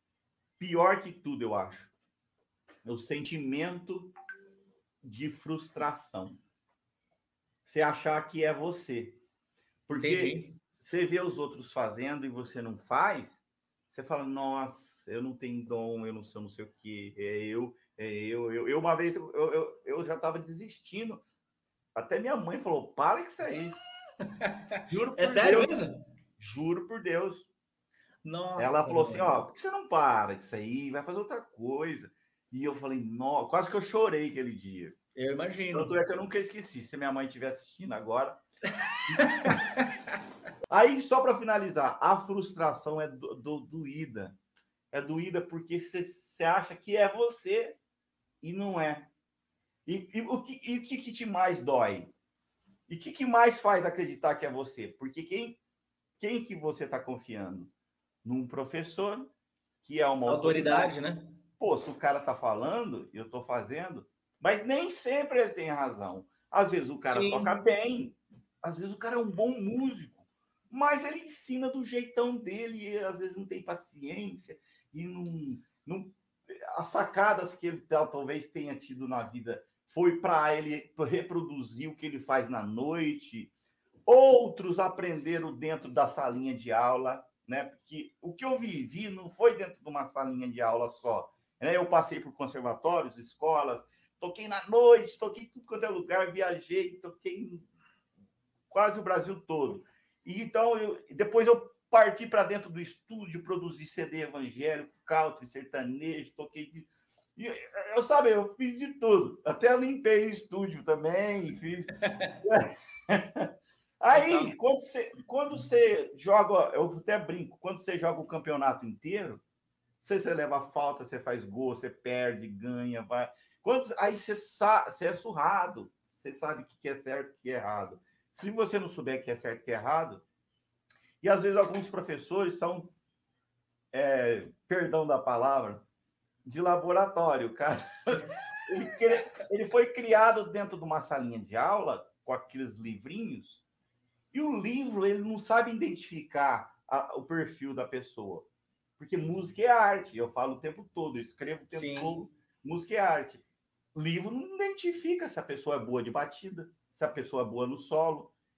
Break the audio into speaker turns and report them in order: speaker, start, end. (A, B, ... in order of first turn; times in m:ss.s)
0:00.6-0:01.9 A
0:02.8-0:04.1 A
0:05.0-0:06.4 A
0:07.6-0:09.2 A
0:09.9-0:21.2 A
0:09.9-0:10.6 B
0:22.0-0:23.8 A
0:24.4-0:26.0 B
0:24.9-0:25.7 A
0:26.4-0:27.5 A
0:28.2-0:29.3 B
0:28.6-0:35.0 A
0:35.2-0:36.0 B
0:35.7-0:38.4 A
0:39.1-0:39.6 A
0:39.3-0:39.8 B
0:40.7-0:44.4 A
0:44.9-0:47.8 A
0:48.4-0:49.1 A
0:49.9-0:52.1 A
0:52.9-0:55.6 A
0:56.2-0:57.7 A
0:58.2-0:59.3 A
0:59.8-1:00.9 A
1:00.2-1:01.3 B
1:01.6-1:23.5 A
1:07.1-1:07.5 B
1:24.1-1:37.6 A
1:38.7-1:53.5 A
1:54.0-1:59.4 A
1:54.1-1:54.5 B
2:00.0-2:10.2 A
2:11.2-2:12.9 A
2:13.9-2:15.8 A
2:16.5-2:23.6 A
2:24.3-2:33.4 A
2:31.7-2:32.1 B
2:34.0-2:38.3 A